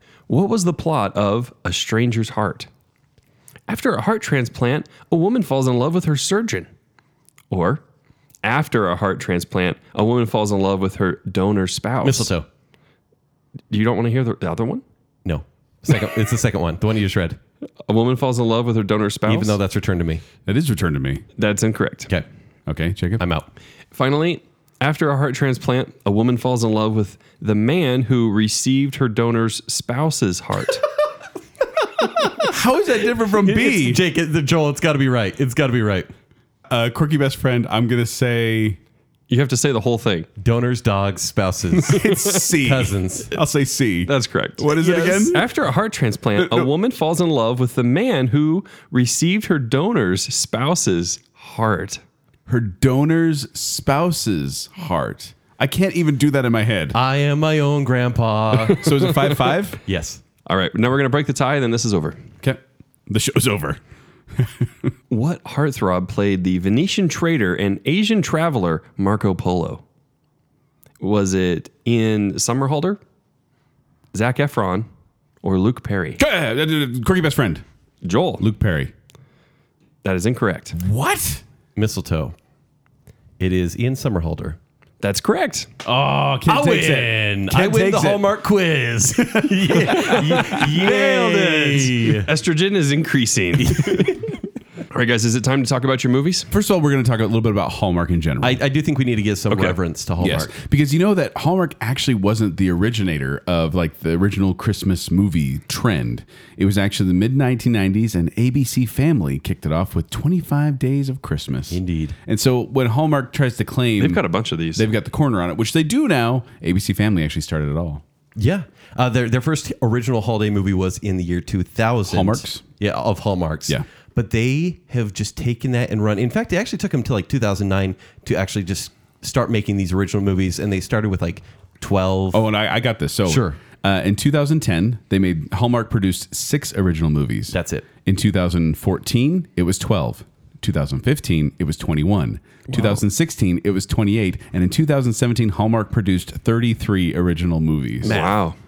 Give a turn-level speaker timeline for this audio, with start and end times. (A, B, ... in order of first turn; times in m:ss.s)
0:00.3-0:02.7 A
0:03.7-0:06.7 A
0:07.5-0:07.8 A
0:08.4-0:12.3 A
0:12.0-0:12.5 B
0:13.7-0:14.8 A
0:15.2-0:17.4 B
0:17.9-0:19.6 A
0:19.3-0:20.2 B
0:20.5-0:21.2 C
0:21.4-0:22.1 A
0:22.7-0:23.2 C
0:23.2-0:23.5 B
0:23.9-0:30.9 A
0:32.4-0:34.0 C
0:33.2-0:36.1 B
0:36.7-0:38.8 C
0:39.3-0:40.3 A
0:40.4-0:42.1 B
0:41.9-0:45.5 C
0:42.0-0:42.5 A
0:42.6-0:43.3 B
0:44.1-0:52.0 A
0:44.8-0:45.3 B
0:46.4-0:46.7 C
0:52.5-0:57.0 C
0:56.9-0:58.8 B
0:58.7-0:59.8 C
0:58.9-0:59.3 A
0:59.9-1:00.2 B
1:00.5-1:02.2 A
1:02.4-1:03.8 C
1:04.4-1:04.9 C
1:05.1-1:09.8 A
1:11.0-1:13.0 A
1:14.1-1:14.9 A
1:15.4-1:16.2 A
1:16.2-1:17.6 C
1:18.0-1:18.4 A
1:18.4-1:18.9 C
1:20.0-1:20.8 A
1:20.8-1:21.4 C
1:21.8-1:22.4 B
1:23.4-1:24.6 B
1:25.0-1:25.7 A
1:25.8-1:28.3 C
1:26.5-1:32.3 B
1:29.4-1:30.6 C
1:29.9-1:34.3 A
1:33.6-1:34.2 B
1:34.9-1:36.5 A
1:36.5-1:38.6 C
1:38.4-1:40.5 B
1:40.2-1:54.2 C
1:51.7-1:52.2 B
1:54.0-1:54.9 A
1:54.8-1:58.0 C
1:58.4-2:12.5 B
2:02.1-2:02.6 C
2:12.3-2:28.2 C
2:13.2-2:13.6 B
2:17.5-2:17.9 B
2:22.7-2:23.0 B
2:28.0-2:28.4 B
2:28.0-2:28.6 A